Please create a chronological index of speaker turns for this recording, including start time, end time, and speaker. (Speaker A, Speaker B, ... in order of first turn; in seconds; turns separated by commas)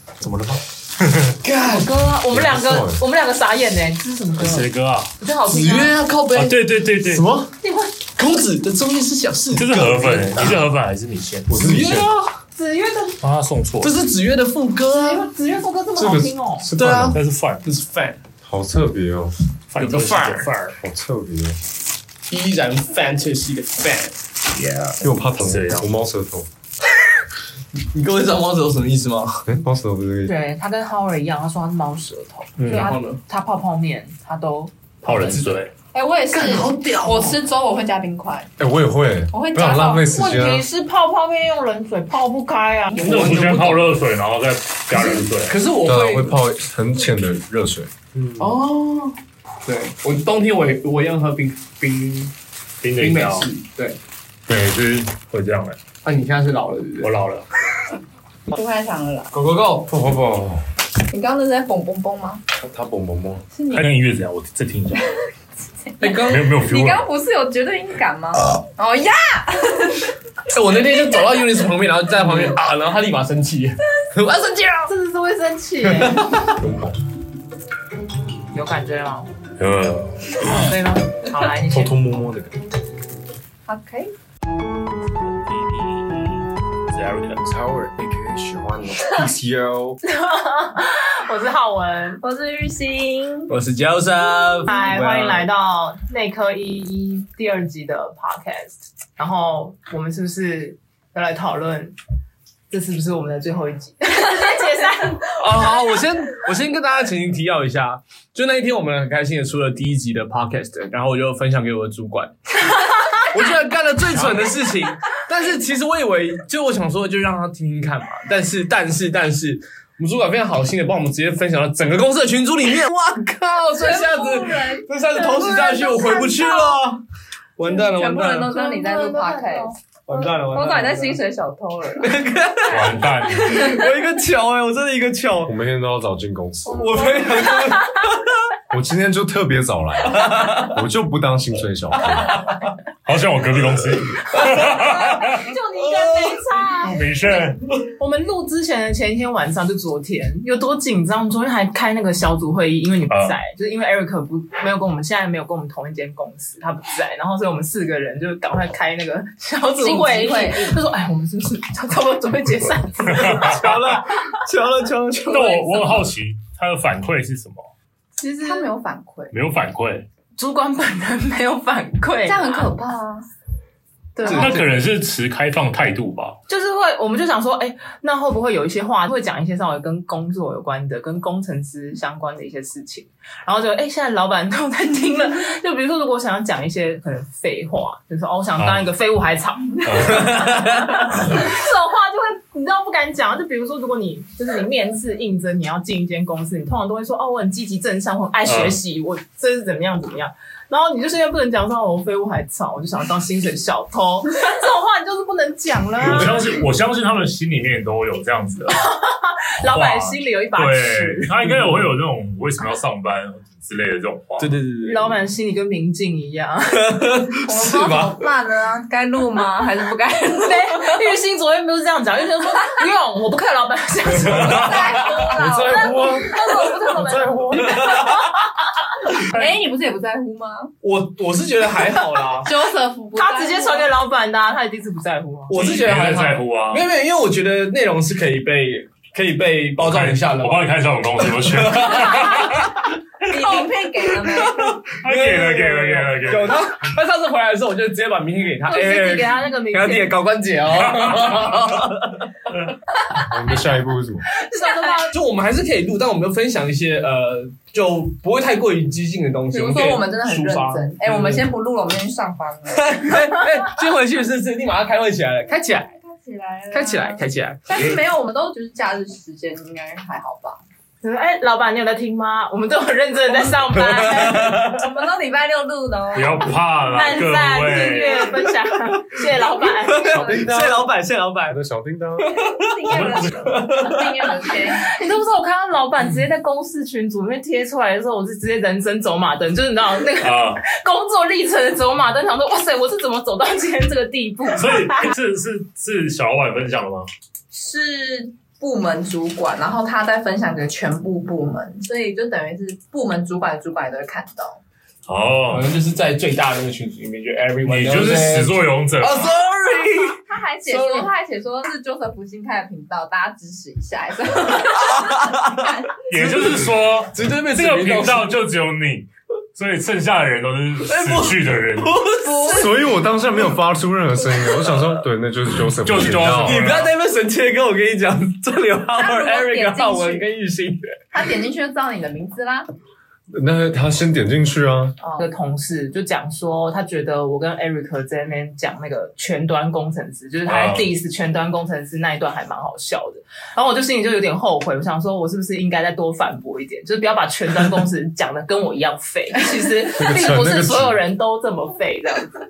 Speaker A: 0.2-1.4, Speaker B: 1.4-1.9, Speaker C: 1.6-4.7, Speaker D: 2.3-3.0, Speaker A: 4.4-5.1, Speaker C: 5.2-6.0, Speaker B: 5.5-6.6, Speaker A: 6.3-7.3, Speaker D: 7.1-7.5, Speaker C: 7.6-8.0, Speaker B: 8.2-10.6, Speaker A: 9.5-11.6, Speaker D: 11.5-12.1, Speaker B: 11.5-12.4, Speaker C: 12.6-13.2, Speaker A: 13.2-14.0, Speaker B: 13.8-15.3, Speaker C: 14.9-16.7, Speaker D: 16.0-17.2, Speaker B: 16.8-18.2, Speaker A: 17.1-17.6, Speaker D: 18.4-19.3, Speaker A: 19.7-20.8, Speaker B: 19.8-20.5, Speaker D: 20.8-21.6, Speaker B: 22.3-24.2, Speaker A: 24.5-25.9, Speaker D: 25.0-26.5, Speaker B: 27.9-29.4, Speaker D: 29.5-30.3, Speaker C: 30.2-35.5, Speaker B: 32.6-33.2, Speaker E: 32.7-33.0, Speaker A: 35.0-35.7, Speaker E: 35.9-38.5, Speaker B: 36.3-37.4, Speaker D: 38.6-40.6, Speaker E: 39.3-40.0, Speaker C: 39.7-43.0, Speaker B: 42.9-43.9, Speaker A: 43.0-45.6, Speaker B: 44.9-46.4, Speaker D: 45.8-48.6, Speaker B: 48.4-52.3, Speaker A: 52.8-53.5, Speaker B: 53.0-54.0, Speaker A: 54.5-55.8, Speaker B: 56.0-57.1, Speaker A: 57.0-57.5, Speaker E: 58.5-59.3, Speaker B: 59.3-59.9, Speaker D: 59.9-60.7, Speaker E: 61.1-62.4, Speaker D: 62.6-63.5, Speaker E: 63.5-63.9, Speaker A: 63.7-65.2, Speaker E: 66.0-70.1, Speaker B: 66.0-66.5, Speaker A: 66.2-67.0, Speaker B: 70.5-74.9, Speaker C: 74.9-76.3, Speaker B: 75.9-76.6, Speaker D: 76.6-77.0, Speaker C: 78.5-79.3, Speaker A: 79.6-80.7, Speaker C: 80.5-82.0, Speaker D: 81.7-82.5, Speaker E: 83.7-84.1, Speaker A: 85.2-87.5, Speaker D: 87.5-90.0, Speaker C: 90.0-92.2, Speaker E: 92.2-93.5, Speaker B: 93.5-95.5, Speaker C: 94.7-102.0, Speaker C: 102.7-105.7, Speaker B: 105.4-127.0, Speaker A: 114.1-114.5, Speaker E: 123.8-126.8, Speaker B: 127.6-128.6, Speaker E: 127.7-132.2, Speaker C: 128.5-129.8, Speaker B: 130.1-131.2, Speaker B: 132.0-135.5, Speaker A: 132.7-133.6, Speaker E: 133.4-133.9, Speaker D: 135.4-137.2, Speaker B: 136.7-138.3, Speaker E: 137.0-137.7, Speaker D: 138.7-142.5, Speaker B: 140.0-140.8, Speaker B: 142.0-142.5, Speaker A: 143.1-145.5, Speaker B: 144.3-144.6, Speaker C: 144.6-163.6, Speaker B: 145.8-146.4, Speaker A: 146.8-147.6, Speaker A: 153.1-153.4, Speaker E: 159.8-160.8, Speaker A: 163.1-163.6, Speaker B: 163.3-165.5, Speaker A: 165.3-167.6, Speaker E: 165.3-165.6, Speaker C: 165.6-166.0, Speaker C: 168.2-168.7, Speaker E: 168.4-169.3, Speaker A: 169.3-170.1, Speaker C: 170.4-172.7, Speaker E: 172.2-173.2, Speaker C: 174.2-174.6, Speaker A: 174.3-176.4, Speaker B: 174.3-174.7, Speaker C: 176.5-206.5, Speaker A: 188.6-188.9, Speaker A: 189.8-190.5, Speaker B: 190.2-190.7, Speaker A: 191.2-191.4, Speaker A: 198.5-198.8, Speaker A: 206.0-208.8, Speaker C: 208.7-211.3, Speaker A: 209.6-214.5, Speaker B: 214.4-215.2, Speaker C: 214.8-217.0, Speaker B: 216.7-218.2, Speaker E: 217.5-221.1, Speaker C: 220.4-229.6, Speaker E: 224.3-227.2, Speaker B: 225.1-226.2, Speaker D: 225.4-226.2, Speaker B: 227.6-228.1, Speaker E: 227.7-228.1, Speaker E: 229.2-230.7, Speaker B: 230.8-232.5, Speaker E: 232.4-233.9, Speaker C: 233.2-235.8, Speaker B: 235.5-242.7, Speaker A: 235.5-236.9, Speaker A: 239.8-242.7, Speaker E: 242.0-242.6, Speaker E: 243.2-244.8, Speaker B: 243.4-243.7, Speaker B: 244.3-252.3, Speaker A: 245.0-246.7, Speaker C: 248.7-250.2, Speaker D: 253.2-254.3, Speaker C: 254.4-255.2, Speaker B: 255.1-261.5, Speaker E: 259.5-263.3, Speaker B: 262.7-265.9, Speaker E: 265.8-270.6, Speaker B: 266.7-267.9, Speaker C: 271.0-274.6, Speaker B: 273.9-274.8, Speaker E: 274.3-276.5, Speaker A: 276.1-278.4, Speaker C: 276.9-280.3, Speaker E: 277.7-278.3, Speaker B: 278.9-279.2, Speaker B: 279.9-281.6, Speaker E: 279.9-280.5, Speaker D: 280.1-280.9, Speaker D: 281.5-282.5, Speaker B: 282.2-284.3, Speaker E: 282.3-285.1, Speaker A: 282.9-283.5, Speaker C: 284.8-295.1, Speaker A: 290.2-290.6, Speaker A: 294.6-297.1, Speaker E: 297.5-304.6, Speaker A: 305.1-305.7, Speaker B: 305.5-311.1, Speaker A: 307.6-309.4, Speaker E: 310.2-316.0, Speaker B: 314.9-315.5, Speaker A: 316.1-321.9, Speaker B: 316.1-318.3, Speaker B: 320.9-322.6, Speaker E: 322.1-322.8, Speaker D: 322.5-326.6, Speaker B: 324.7-325.0, Speaker A: 325.8-326.9, Speaker B: 326.4-331.0, Speaker E: 328.9-330.2, Speaker E: 331.1-332.7, Speaker D: 333.3-335.0, Speaker E: 335.0-335.2, Speaker C: 335.2-352.4, Speaker A: 340.5-340.9, Speaker D: 349.9-351.0